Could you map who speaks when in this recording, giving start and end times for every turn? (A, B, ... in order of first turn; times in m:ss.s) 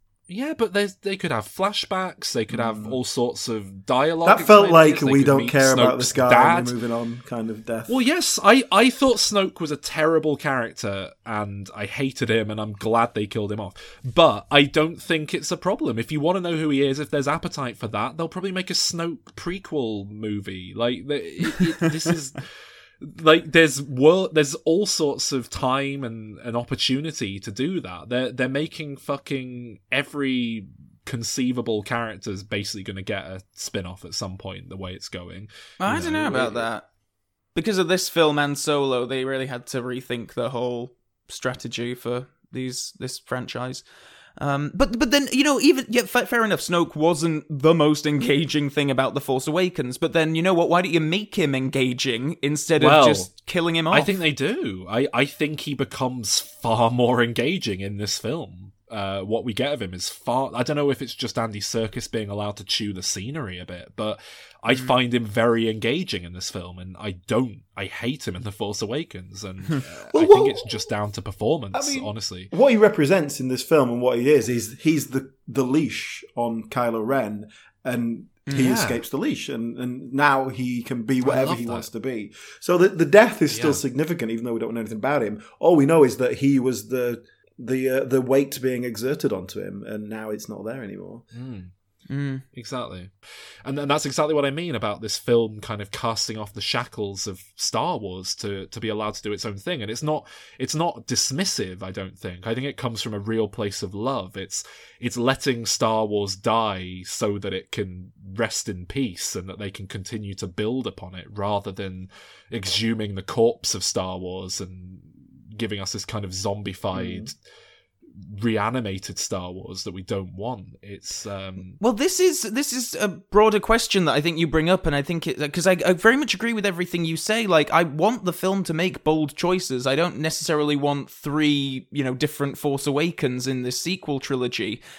0:00.3-0:06.7 A
0:02.5-0:03.0 B
0:04.2-0:08.0 B
0:07.9-0:22.4 A
0:23.0-0:36.6 A
0:35.8-0:36.9 C
0:37.6-0:43.8 C
0:44.4-0:54.1 C
0:52.8-1:12.5 A
1:10.1-1:10.7 B
1:11.7-1:31.3 B
1:18.6-1:19.0 A
1:21.2-1:21.9 A
1:23.5-1:23.8 A
1:31.3-1:31.7 A
1:32.1-1:32.4 C
1:32.5-1:57.4 A
1:56.9-1:57.3 B
1:58.1-2:01.8 A
2:01.8-2:14.8 C